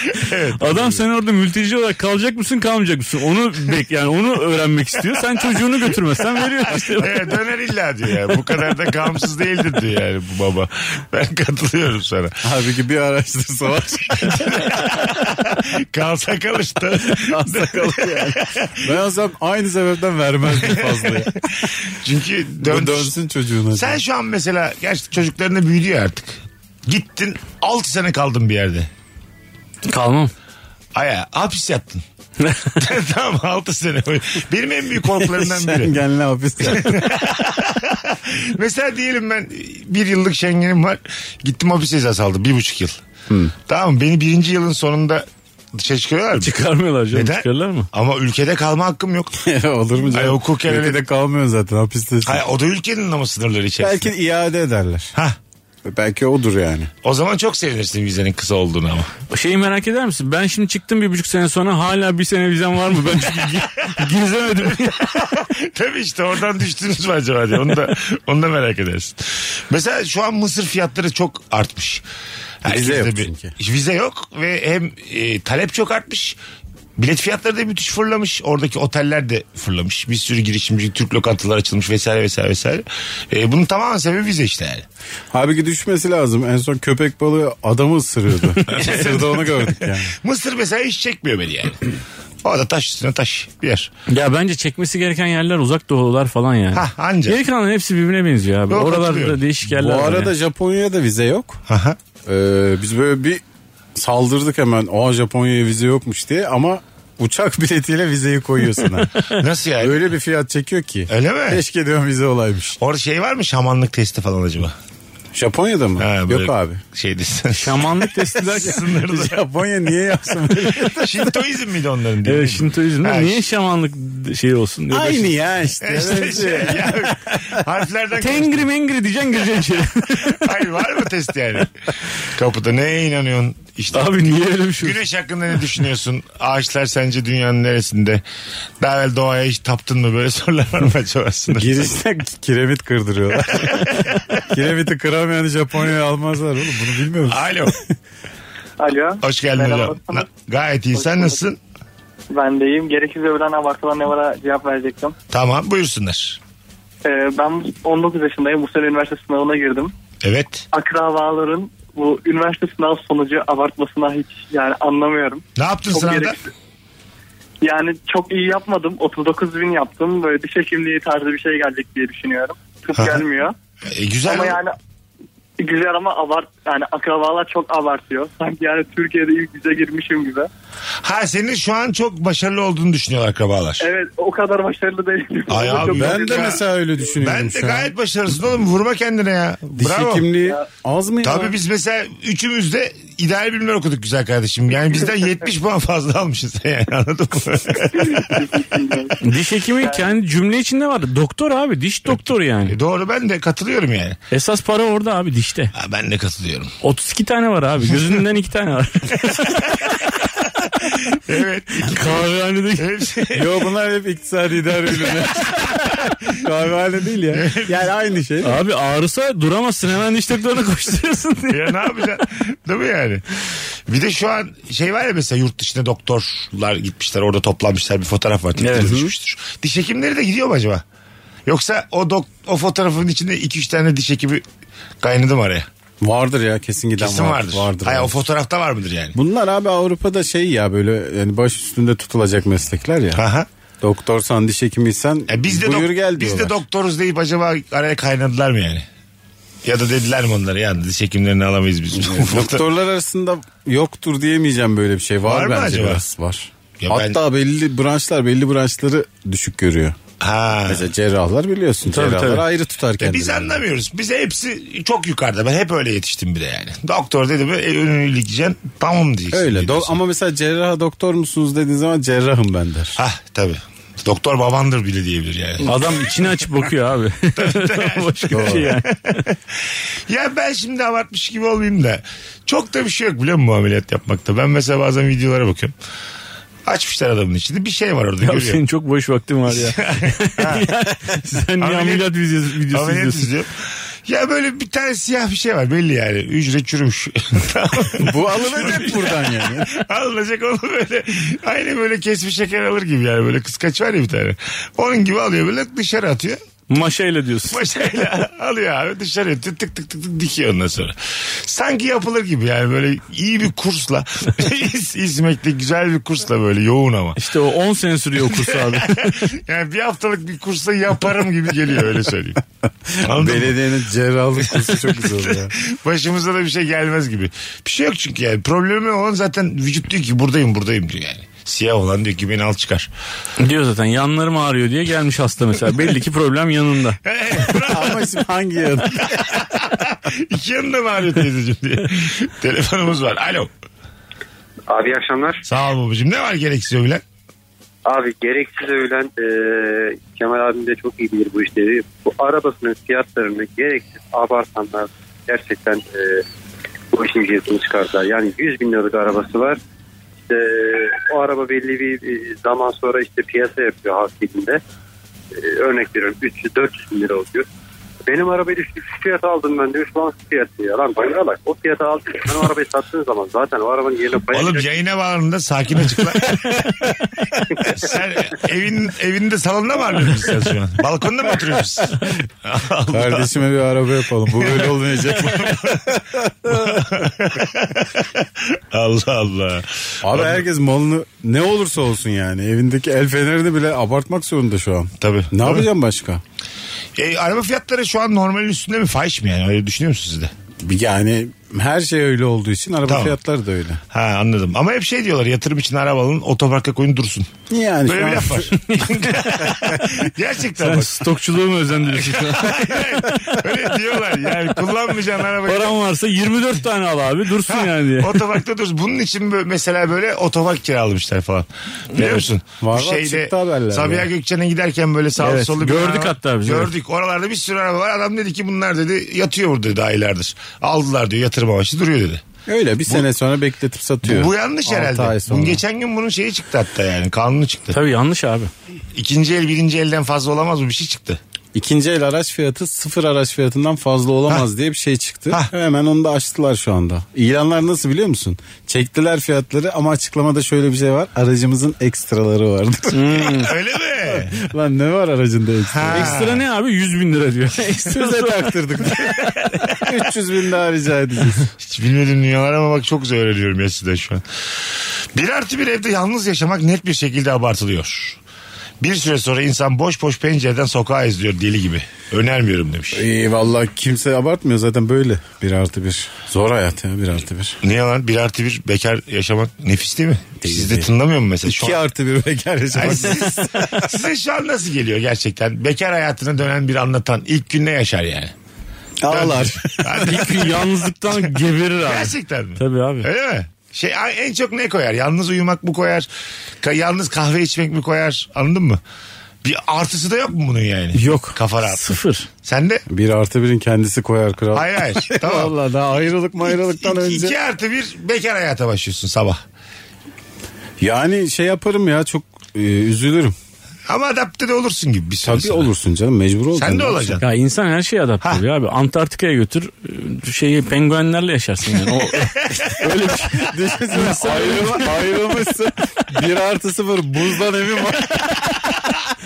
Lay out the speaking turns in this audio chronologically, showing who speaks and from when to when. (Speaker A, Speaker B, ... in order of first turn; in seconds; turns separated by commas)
Speaker A: 0.1-1.0, Speaker B: 0.6-7.1, Speaker A: 6.7-12.4, Speaker C: 12.4-14.6, Speaker A: 14.3-18.9, Speaker C: 17.1-21.7, Speaker A: 20.6-21.3, Speaker A: 21.8-23.1, Speaker C: 22.6-24.0, Speaker A: 23.7-28.9, Speaker B: 29.9-30.3, Speaker A: 30.9-32.0, Speaker B: 32.4-32.7, Speaker A: 32.8-36.0, Speaker C: 35.1-37.3, Speaker A: 36.6-43.0, Speaker C: 43.3-43.5, Speaker A: 43.7-46.5, Speaker B: 46.4-47.9, Speaker A: 47.1-49.3, Speaker C: 49.4-52.4, Speaker A: 50.1-51.0, Speaker A: 52.2-54.1, Speaker C: 53.8-55.1, Speaker C: 55.8-56.9, Speaker A: 57.0-59.1, Speaker B: 59.3-65.3, Speaker A: 63.4-64.0, Speaker A: 64.7-72.0, Speaker A: 72.6-76.4, Speaker C: 72.6-73.5, Speaker A: 77.0-84.8, Speaker C: 85.3-90.1, Speaker B: 88.6-88.9, Speaker A: 88.7-91.9, Speaker A: 92.4-93.9, Speaker B: 94.1-100.3, Speaker A: 96.7-97.4, Speaker A: 98.7-99.4, Speaker C: 99.7-101.6, Speaker A: 101.7-102.0, Speaker C: 102.2-103.4, Speaker C: 103.9-109.2, Speaker A: 109.3-110.0, Speaker C: 109.8-112.8, Speaker A: 111.1-111.6, Speaker A: 112.8-114.7, Speaker C: 115.3-116.8, Speaker A: 116.0-119.4, Speaker B: 117.5-118.8, Speaker C: 118.5-121.3, Speaker A: 120.7-123.4, Speaker B: 122.2-125.3, Speaker C: 124.9-127.6, Speaker A: 125.8-128.7, Speaker B: 128.2-130.5, Speaker A: 130.2-131.7, Speaker A: 132.2-134.2, Speaker B: 133.9-135.0, Speaker A: 134.8-138.2, Speaker A: 138.8-141.9, Speaker C: 141.5-147.9, Speaker A: 143.5-144.4, Speaker A: 147.2-147.8, Speaker D: 148.8-150.3, Speaker A: 149.2-151.6, Speaker D: 150.9-151.4, Speaker D: 152.3-155.1, Speaker A: 155.3-156.4, Speaker D: 157.0-159.9, Speaker A: 160.2-160.7, Speaker D: 160.7-166.4, Speaker A: 165.6-166.3, Speaker D: 167.6-173.5, Speaker A: 172.9-173.2, Speaker A: 173.9-174.6, Speaker D: 174.2-174.8, Speaker D: 175.6-180.5, Speaker A: 181.0-183.8, Speaker D: 183.8-186.5, Speaker A: 185.5-186.6, Speaker C: 185.7-187.9, Speaker A: 187.2-190.3, Speaker C: 189.7-191.6, Speaker A: 191.2-198.6, Speaker D: 197.9-199.2, Speaker B: 199.2-202.7, Speaker A: 202.1-204.2, Speaker B: 204.3-205.7, Speaker A: 205.7-206.8, Speaker B: 206.8-210.5, Speaker A: 209.2-210.1, Speaker A: 210.7-213.6, Speaker B: 211.8-212.8, Speaker C: 213.3-218.6, Speaker A: 217.3-217.8, Speaker B: 218.4-222.1, Speaker A: 221.5-223.3, Speaker A: 223.9-230.8, Speaker B: 228.6-229.0, Speaker C: 228.8-229.1, Speaker A: 231.5-234.4, Speaker A: 235.0-235.7, Speaker C: 236.0-238.2, Speaker A: 237.0-239.2, Speaker C: 239.1-243.2, Speaker A: 243.1-243.5, Speaker C: 243.8-246.6, Speaker A: 245.3-248.8, Speaker A: 249.6-252.6, Speaker C: 251.9-260.0, Speaker A: 255.2-256.0, Speaker A: 256.8-257.2, Speaker A: 260.2-260.9, Speaker C: 260.6-263.6, Speaker B: 261.9-262.4, Speaker A: 263.0-270.0, Speaker C: 269.3-273.0, Speaker A: 273.0-276.7, Speaker B: 275.6-279.2, Speaker A: 277.4-285.7, Speaker C: 278.3-278.7, Speaker A: 286.6-288.6, Speaker B: 288.2-293.3, Speaker A: 289.5-290.7, Speaker A: 291.6-299.0, Speaker C: 298.0-299.7, Speaker B: 298.5-299.0, Speaker A: 299.7-306.4, Speaker B: 306.7-307.6, Speaker A: 307.5-317.2, Speaker B: 317.2-319.2, Speaker A: 318.3-322.4, Speaker A: 323.0-323.6, Speaker C: 323.0-325.5, Speaker A: 324.4-332.9, Speaker B: 333.4-337.0, Speaker A: 337.1-338.1, Speaker C: 337.6-339.5, Speaker A: 339.0-343.5, Speaker E: 344.7-345.4, Speaker A: 345.4-347.0, Speaker E: 347.8-356.2, Speaker E: 356.9-359.6, Speaker E: 360.2-364.6, Speaker E: 365.3-367.5, Speaker E: 368.1-374.7, Speaker A: 374.3-376.7, Speaker A: 377.6-383.3, Speaker C: 382.9-387.0, Speaker A: 384.4-390.4, Speaker C: 390.0-396.2, Speaker A: 395.0-395.7, Speaker A: 396.9-400.3, Speaker C: 400.6-403.8, Speaker A: 402.9-403.1, Speaker A: 403.9-407.3, Speaker C: 407.5-408.5, Speaker A: 407.9-411.0, Speaker B: 408.5-409.5, Speaker B: 410.6-412.8, Speaker A: 411.9-415.8, Speaker B: 415.4-418.2, Speaker A: 417.4-432.2, Speaker B: 421.9-422.2, Speaker C: 422.6-424.1, Speaker B: 425.2-426.7, Speaker C: 432.5-435.6, Speaker A: 434.0-437.8, Speaker B: 437.7-438.5, Speaker A: 438.9-441.2, Speaker C: 441.5-453.4, Speaker B: 452.9-453.5, Speaker A: 453.2-454.4, Speaker C: 454.1-456.2, Speaker A: 455.7-456.4, Speaker B: 455.9-458.6, Speaker C: 457.7-461.5, Speaker A: 459.0-459.8, Speaker A: 461.6-464.2, Speaker A: 465.1-468.2, Speaker A: 468.8-473.0, Speaker C: 472.9-477.6, Speaker A: 477.6-481.8, Speaker C: 480.4-480.9, Speaker C: 481.4-483.9, Speaker A: 482.7-488.3, Speaker C: 489.0-490.4, Speaker A: 489.1-496.1, Speaker B: 490.0-493.1, Speaker A: 496.6-498.8, Speaker A: 499.4-502.8, Speaker B: 500.9-502.3, Speaker C: 502.9-507.3, Speaker A: 504.5-505.5, Speaker A: 506.5-509.4, Speaker C: 510.8-513.4, Speaker A: 513.9-515.7, Speaker C: 515.2-517.2, Speaker A: 516.5-517.2, Speaker B: 517.2-525.2, Speaker A: 522.4-522.8, Speaker C: 522.8-528.3